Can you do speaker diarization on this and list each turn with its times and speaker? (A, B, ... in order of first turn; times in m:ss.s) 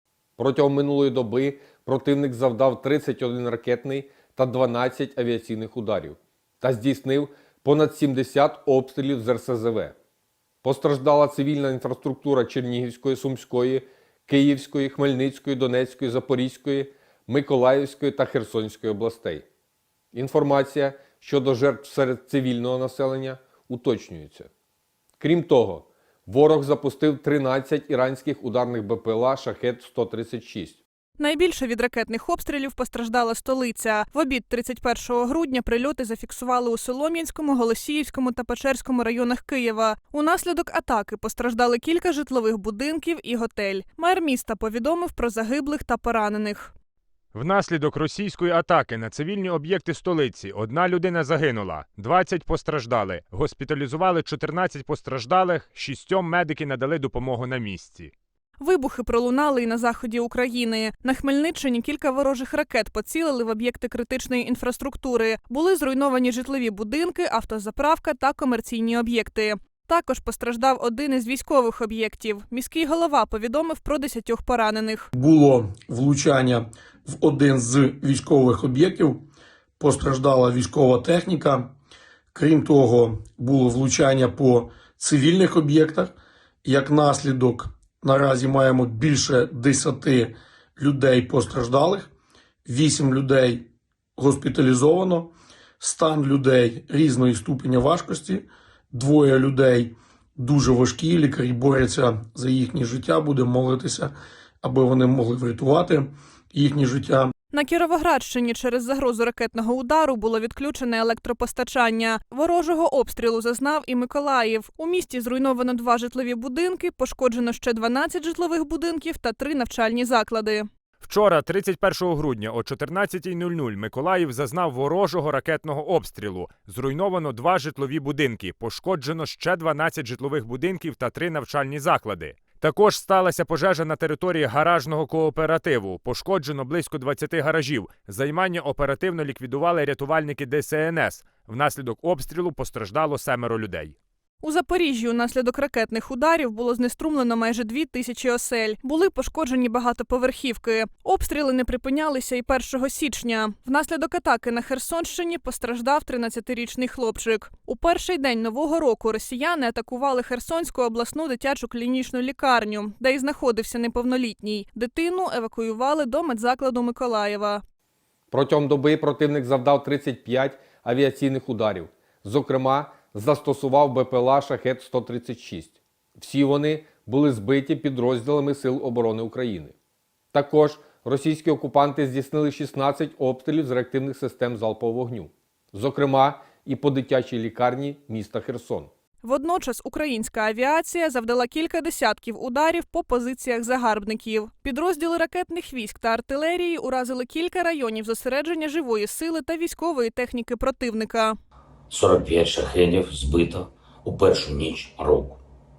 0:00.4-0:09.9 A
0:10.6-0:19.4 A
0:20.1-0:24.5 A
0:25.2-0:30.8 A
0:31.2-0:46.7 B
0:47.3-0:58.1 C
0:58.6-1:15.1 B
1:15.2-1:19.2 D
1:19.8-1:21.7 D
1:22.3-1:26.1 D
1:26.6-1:32.1 D
1:32.7-1:33.6 D
1:34.2-1:47.3 D
1:47.5-2:00.7 B
2:01.0-2:23.9 C
2:24.4-2:47.6 B
2:48.3-2:59.7 A
3:00.3-3:08.9 A
3:09.2-3:21.4 B
3:21.9-3:25.4 E